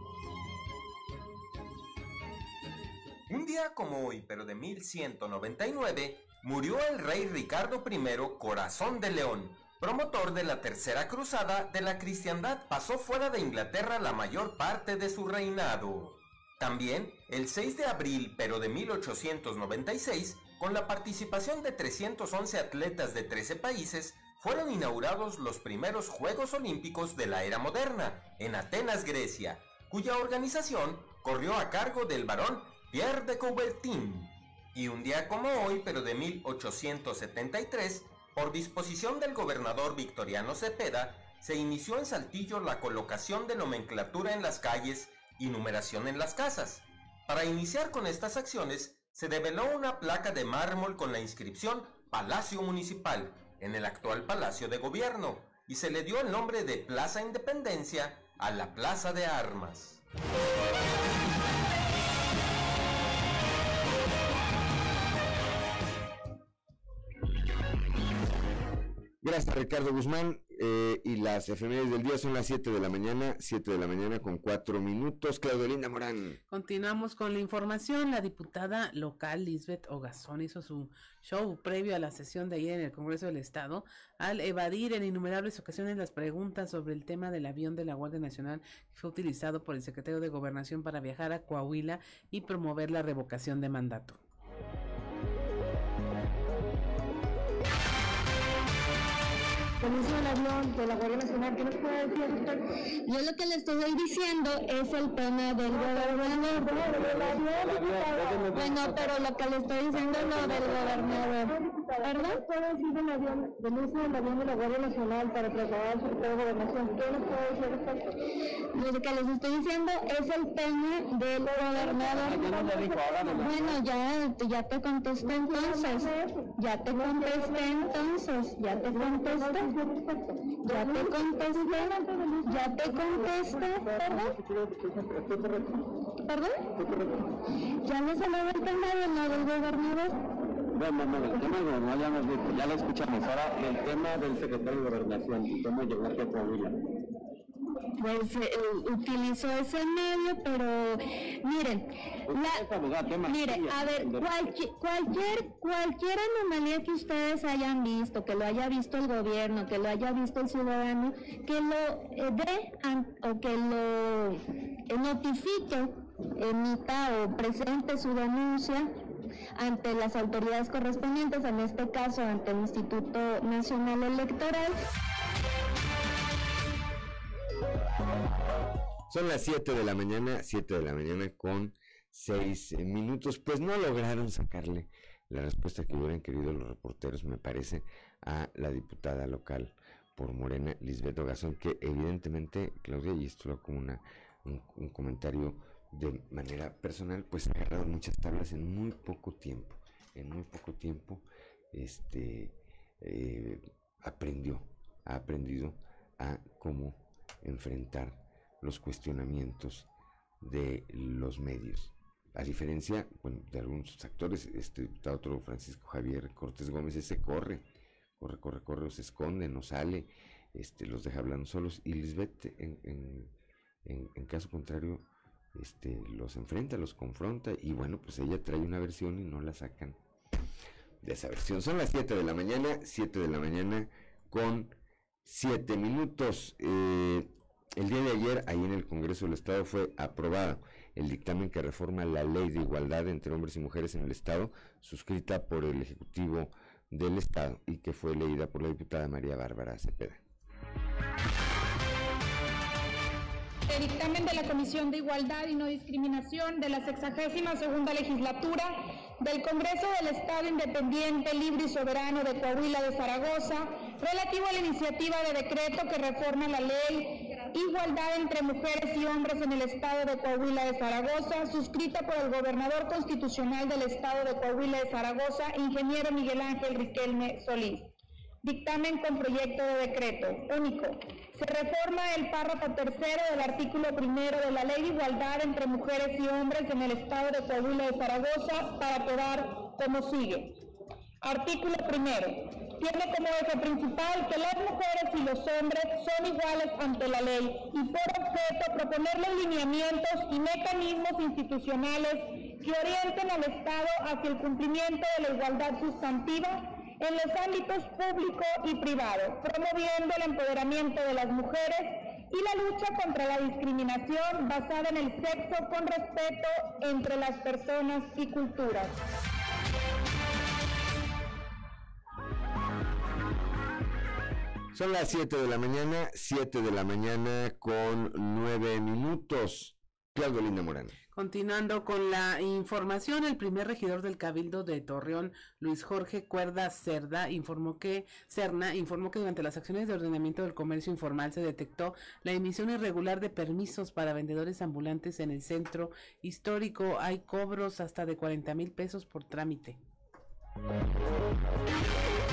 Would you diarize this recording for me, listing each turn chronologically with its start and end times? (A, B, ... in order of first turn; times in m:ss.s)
0:03.3-1:00.0 A
1:09.2-1:16.4 B
1:16.5-1:34.2 C
1:41.4-1:42.4 D
1:43.0-1:47.6 E
1:46.0-1:47.4 D
1:46.9-1:49.1 F
1:48.5-1:52.4 E
1:51.8-1:52.5 D
1:53.4-1:57.9 D
1:58.7-2:02.8 E
2:01.8-2:03.8 F
2:03.3-2:09.7 E
2:05.6-2:06.1 D
2:07.2-2:07.6 D
2:10.6-2:14.3 E
2:10.8-2:11.0 D
2:14.4-2:15.6 F
2:16.2-2:16.7 E
2:16.8-2:17.1 F
2:17.8-2:20.1 E
2:20.7-2:26.8 F
2:28.0-2:32.7 E
2:32.3-2:34.5 F
2:33.2-2:48.9 E
2:49.6-2:54.8 E
2:59.1-3:29.9 B
3:30.4-3:37.6 B
3:38.2-3:43.3 B
3:43.8-3:45.0 B
3:45.5-3:50.0 B
3:51.0-4:10.2 B
4:13.7-4:37.9 G
4:38.4-4:50.5 G
4:51.2-5:18.9 G
5:24.7-5:31.0 B
5:31.1-5:49.8 C